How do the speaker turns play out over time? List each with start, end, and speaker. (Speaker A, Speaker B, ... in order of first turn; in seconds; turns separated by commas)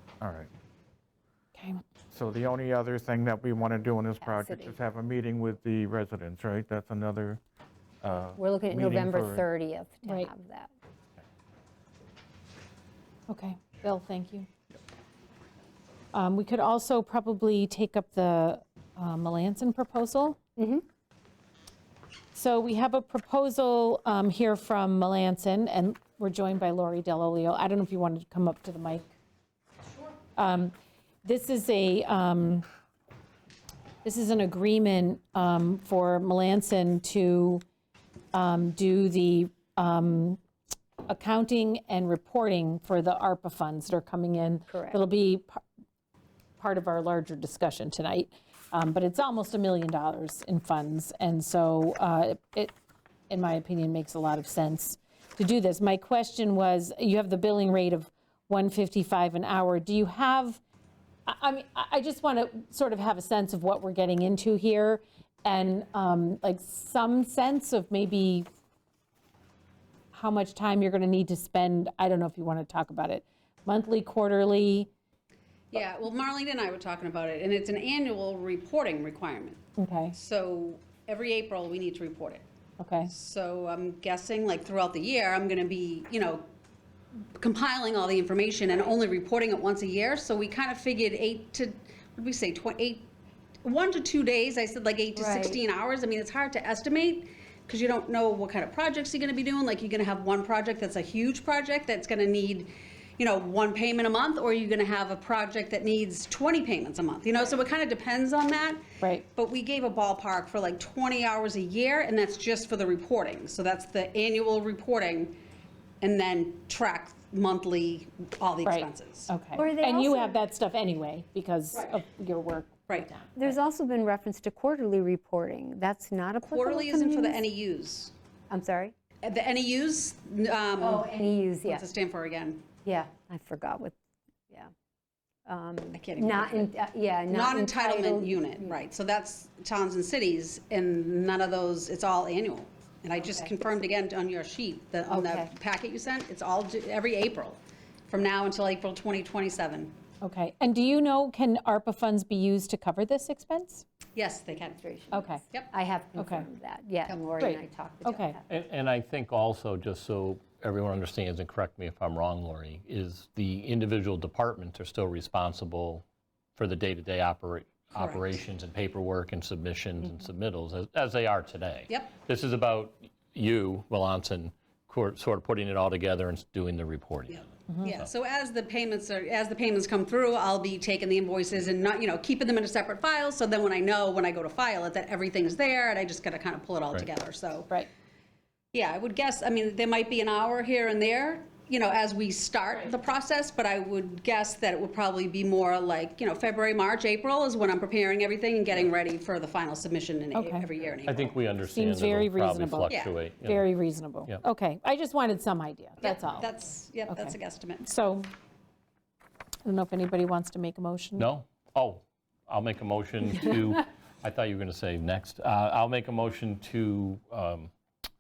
Speaker A: 0.2-0.5, Speaker B: 1.6-1.8, Speaker A: 2.1-7.4, Speaker C: 4.2-4.8, Speaker A: 8.0-9.5, Speaker C: 8.4-10.7, Speaker B: 10.0-10.3, Speaker B: 13.3-14.5, Speaker B: 16.1-20.4, Speaker C: 20.6-20.8, Speaker B: 22.3-29.1, Speaker B: 30.4-32.7, Speaker B: 34.0-37.6, Speaker B: 38.3-40.4, Speaker B: 41.1-45.6, Speaker C: 44.7-45.0, Speaker B: 46.6-52.8, Speaker B: 53.3-60.6, Speaker B: 61.3-68.5, Speaker B: 70.1-74.9, Speaker D: 75.7-82.4, Speaker B: 79.8-80.2, Speaker B: 82.8-83.1, Speaker D: 83.1-86.5, Speaker D: 87.4-93.1, Speaker D: 93.6-108.8, Speaker C: 95.2-95.6, Speaker B: 109.0-109.3, Speaker D: 109.3-115.4, Speaker D: 116.0-119.3, Speaker B: 118.6-123.6, Speaker C: 119.5-120.3, Speaker C: 123.4-127.4, Speaker D: 126.4-128.1, Speaker C: 128.5-128.9, Speaker D: 129.2-132.7, Speaker C: 130.8-131.9, Speaker C: 132.8-133.9, Speaker C: 135.5-138.8, Speaker D: 135.9-136.7, Speaker D: 137.3-149.9, Speaker C: 143.2-143.7, Speaker C: 145.1-145.5, Speaker B: 150.2-153.8, Speaker D: 154.2-154.8, Speaker C: 154.6-158.4, Speaker B: 155.1-155.4, Speaker B: 156.2-156.5, Speaker B: 157.4-158.4, Speaker E: 158.5-166.0, Speaker E: 166.6-178.1, Speaker D: 167.9-168.3, Speaker D: 171.9-172.2, Speaker D: 177.3-187.7, Speaker B: 177.7-177.9, Speaker D: 188.7-201.4, Speaker B: 200.3-200.7, Speaker E: 201.0-203.7, Speaker B: 201.7-208.3, Speaker D: 202.9-203.2, Speaker D: 206.0-207.9, Speaker B: 209.6-211.3, Speaker E: 211.2-217.7